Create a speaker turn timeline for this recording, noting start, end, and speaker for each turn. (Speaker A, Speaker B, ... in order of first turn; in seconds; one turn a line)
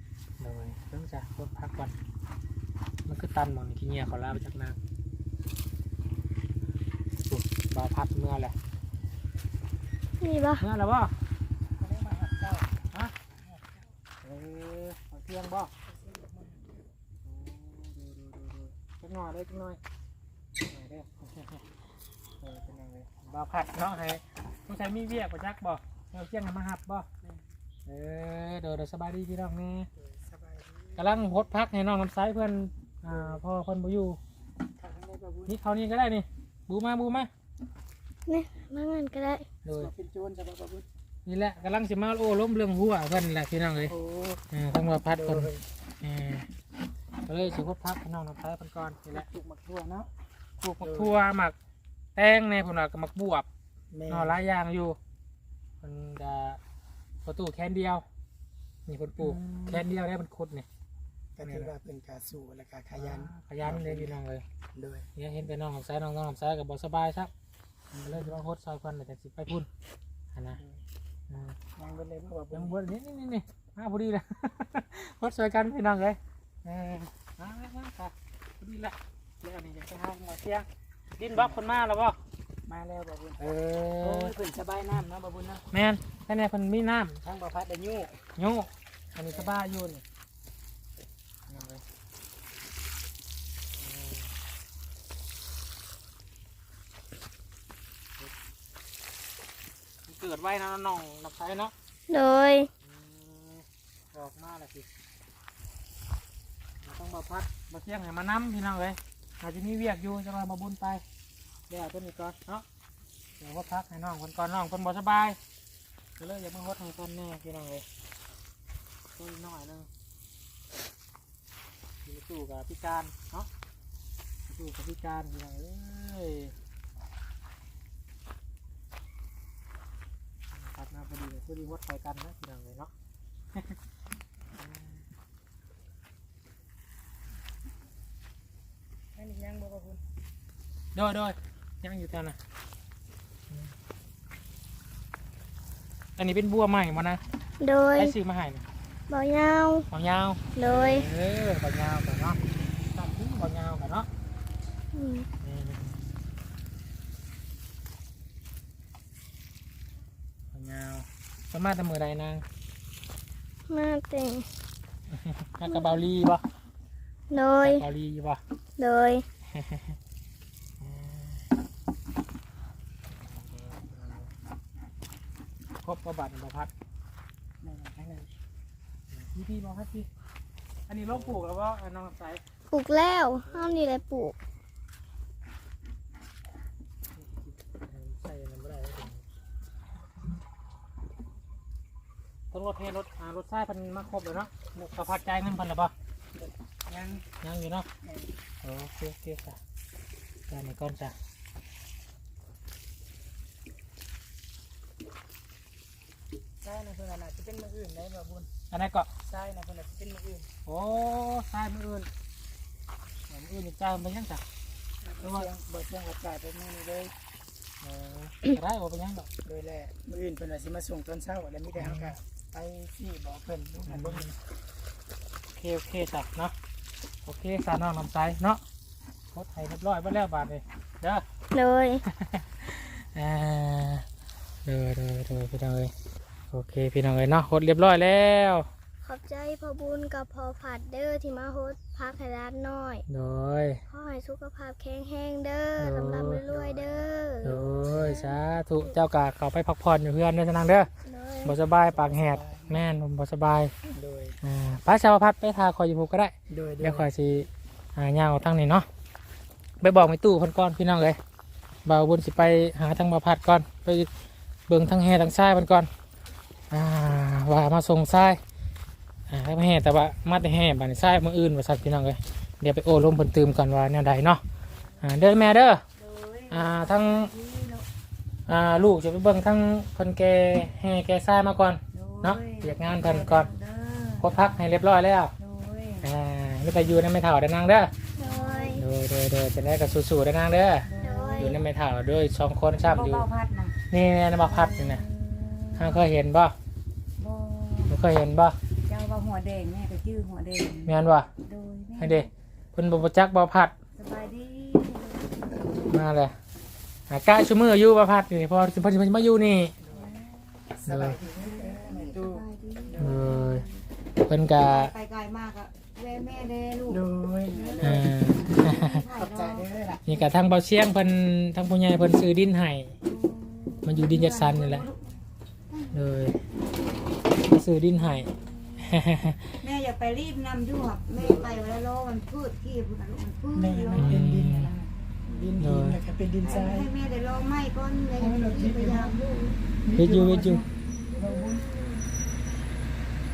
Speaker A: 0.4-1.9
Speaker A: 3.0-4.8
Speaker A: 7.3-8.5
Speaker B: 10.2-10.6
Speaker A: 10.6-11.1
Speaker C: 11.8-12.8
Speaker C: 13.4-13.8
Speaker A: 14.2-15.7
Speaker C: 16.1-16.6
Speaker A: 17.2-19.8
Speaker A: 20.6-21.6
Speaker A: 22.4-27.1
Speaker A: 27.9-29.9
Speaker C: 30.0-31.3
Speaker A: 31.0-34.2
Speaker C: 33.1-33.4
Speaker C: 34.8-35.5
Speaker A: 35.5-37.3
Speaker B: 38.3-39.4
Speaker A: 39.6-39.9
Speaker C: 39.7-40.9
Speaker A: 41.2-43.9
Speaker C: 43.9-44.4
Speaker A: 44.5-45.5
Speaker C: 45.1-45.6
Speaker A: 46.0-46.5
Speaker A: 47.3-49.3
Speaker C: 49.1-50.1
Speaker A: 50.6-51.5
Speaker C: 50.8-51.2
Speaker A: 52.1-53.5
Speaker C: 53.9-54.4
Speaker A: 54.1-55.0
Speaker A: 55.8-56.6
Speaker A: 57.2-58.0
Speaker A: 58.9-60.6
Speaker C: 59.2-59.9
Speaker C: 61.4-64.2
Speaker A: 61.4-61.7
Speaker A: 63.0-64.4
Speaker C: 64.7-65.0
Speaker A: 65.2-67.3
Speaker C: 67.9-68.3
Speaker A: 68.0-69.7
Speaker A: 70.3-70.6
Speaker A: 71.3-71.6
Speaker C: 71.8-72.8
Speaker A: 72.5-80.7
Speaker A: 81.2-82.2
Speaker C: 82.7-83.4
Speaker A: 83.4-84.3
Speaker C: 84.0-85.6
Speaker A: 85.7-87.2
Speaker C: 87.2-88.2
Speaker A: 88.4-90.0
Speaker A: 91.5-91.8
Speaker A: 93.8-94.3
Speaker A: 100.0-101.7
Speaker B: 102.1-102.7
Speaker A: 102.8-104.8
Speaker A: 106.8-111.0
Speaker A: 111.7-112.6
Speaker A: 113.4-115.4
Speaker A: 116.2-117.8
Speaker A: 119.2-119.9
Speaker A: 122.0-123.5
Speaker A: 124.5-126.5
Speaker A: 130.5-132.9
Speaker C: 139.2-140.0
Speaker A: 140.9-142.4
Speaker A: 146.2-147.2
Speaker B: 147.6-148.1
Speaker A: 147.9-148.6
Speaker B: 149.1-149.9
Speaker A: 149.9-154.1
Speaker B: 150.6-151.1
Speaker B: 154.9-155.3
Speaker A: 155.4-156.0
Speaker A: 160.5-162.4
Speaker B: 163.7-164.5
Speaker A: 165.1-166.4
Speaker B: 167.3-167.8
Speaker A: 167.6-168.4
Speaker B: 168.8-169.2
Speaker A: 169.5-169.9
Speaker A: 170.8-171.4
Speaker A: 173.1-174.3
Speaker A: 175.8-176.7
Speaker C: 177.6-178.3
Speaker A: 179.1-180.1
Speaker A: 180.9-182.4
Speaker B: 182.7-184.3
Speaker A: 183.4-183.8
Speaker A: 187.2-189.2
Speaker A: 192.5-195.9
Speaker C: 196.3-197.2
Speaker A: 197.4-197.9
Speaker C: 198.0-198.3
Speaker A: 198.6-199.6
Speaker A: 200.5-201.1
Speaker C: 206.6-208.5
Speaker A: 208.7-209.1
Speaker C: 209.2-210.5
Speaker A: 210.7-212.1
Speaker A: 213.3-214.4
Speaker C: 215.0-217.1
Speaker A: 215.2-215.5
Speaker A: 217.8-219.3
Speaker C: 219.4-224.3
Speaker A: 221.8-222.1
Speaker A: 223.9-224.3
Speaker A: 225.5-226.5
Speaker A: 227.2-228.6
Speaker A: 229.3-231.2
Speaker B: 231.5-232.0
Speaker A: 232.2-234.0
Speaker A: 234.6-235.9
Speaker A: 236.5-238.7
Speaker B: 239.0-243.0
Speaker A: 243.1-243.8
Speaker B: 243.9-248.2
Speaker A: 245.8-246.4
Speaker C: 246.5-247.8
Speaker A: 247.4-250.9
Speaker B: 251.0-251.5
Speaker A: 251.4-253.7
Speaker C: 251.9-252.8
Speaker C: 253.9-254.4
Speaker A: 254.4-258.9
Speaker C: 256.5-257.1
Speaker A: 259.8-261.2
Speaker A: 261.8-264.1
Speaker A: 264.7-265.9
Speaker A: 266.7-268.4
Speaker A: 269.3-274.4
Speaker A: 275.0-275.8
Speaker D: 276.0-277.9
Speaker A: 276.5-277.3
Speaker A: 278.5-283.5
Speaker D: 281.9-284.5
Speaker A: 284.2-285.3
Speaker D: 285.4-286.1
Speaker A: 286.0-287.9
Speaker B: 288.2-288.8
Speaker D: 288.2-288.8
Speaker A: 288.7-293.3
Speaker D: 290.9-291.6
Speaker B: 291.0-291.6
Speaker D: 292.8-293.7
Speaker A: 293.9-295.0
Speaker D: 294.4-296.0
Speaker A: 295.7-296.5
Speaker D: 297.2-297.9
Speaker A: 297.9-298.6
Speaker D: 298.9-302.2
Speaker A: 300.9-301.3
Speaker A: 302.0-303.7
Speaker D: 303.9-305.4
Speaker A: 305.9-306.3
Speaker A: 307.1-309.7
Speaker C: 309.8-310.1
Speaker D: 309.9-310.7
Speaker C: 310.8-313.4
Speaker A: 310.9-311.2
Speaker D: 311.4-313.8
Speaker A: 313.0-313.6
Speaker A: 314.2-314.9
Speaker D: 314.5-319.6
Speaker C: 316.9-320.2
Speaker A: 317.8-319.0
Speaker A: 320.1-322.9
Speaker D: 323.0-325.0
Speaker A: 323.8-324.9
Speaker A: 325.9-326.4
Speaker A: 327.3-329.5
Speaker D: 329.6-334.2
Speaker C: 331.1-331.7
Speaker C: 333.5-336.9
Speaker A: 333.9-334.7
Speaker A: 335.6-336.0
Speaker D: 336.4-339.6
Speaker C: 338.1-339.2
Speaker C: 339.8-340.6
Speaker A: 339.9-340.6
Speaker D: 340.4-342.1
Speaker C: 341.2-341.6